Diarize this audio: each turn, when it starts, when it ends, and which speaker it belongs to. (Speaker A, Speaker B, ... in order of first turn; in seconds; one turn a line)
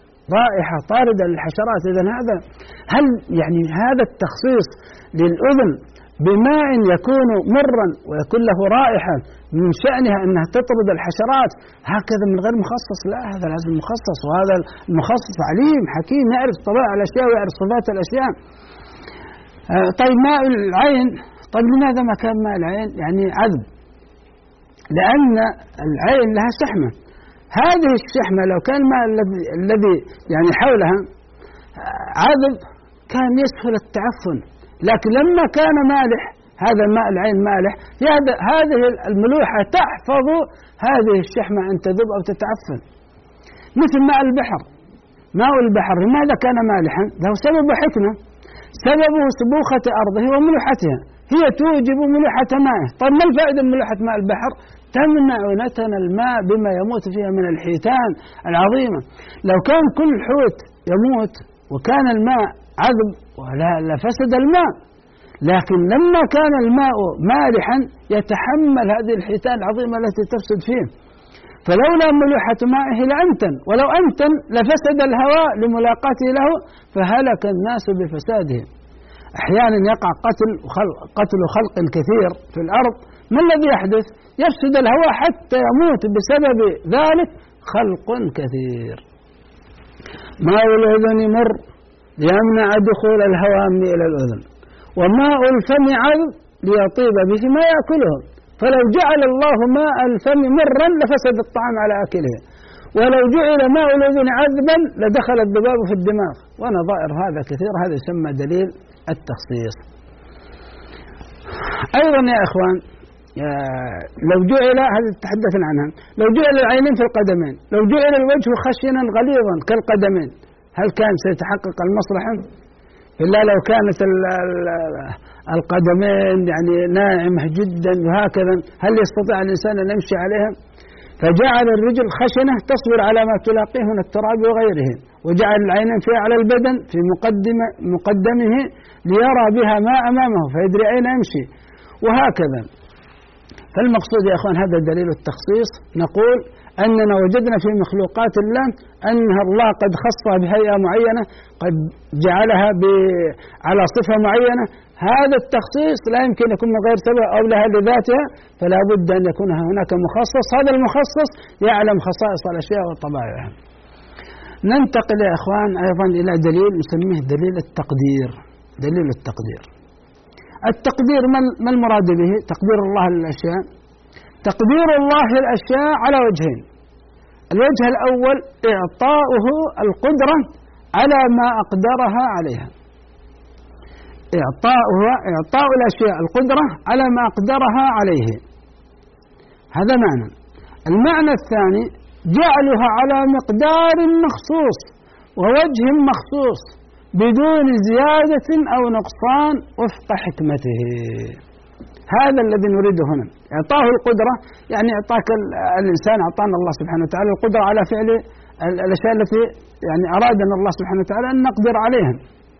Speaker A: 0.3-18.3
Speaker A: 19.7-23.6
Speaker A: 24.9-26.9
Speaker A: 27.5-31.0
Speaker A: 31.8-32.6
Speaker A: 33.1-42.8
Speaker A: 43.8-44.6
Speaker A: 45.3-48.1
Speaker A: 48.8-64.7
Speaker A: 65.4-70.9
Speaker A: 71.6-78.7
Speaker A: 79.4-89.0
Speaker A: 90.4-91.6
Speaker A: 92.2-94.4
Speaker A: 95.0-102.4
Speaker A: 103.0-109.8
Speaker A: 111.9-112.8
Speaker A: 113.4-122.4
Speaker A: 123.2-130.5
Speaker A: 131.2-141.5
Speaker A: 142.0-142.7
Speaker A: 143.7-163.5
Speaker A: 164.7-169.7
Speaker A: 170.7-173.6
Speaker A: 174.4-176.6
Speaker A: 177.5-180.4
Speaker A: 181.0-182.7
Speaker A: 184.4-188.4
Speaker A: 189.7-190.3
Speaker A: 190.9-201.4
Speaker A: 202.1-212.2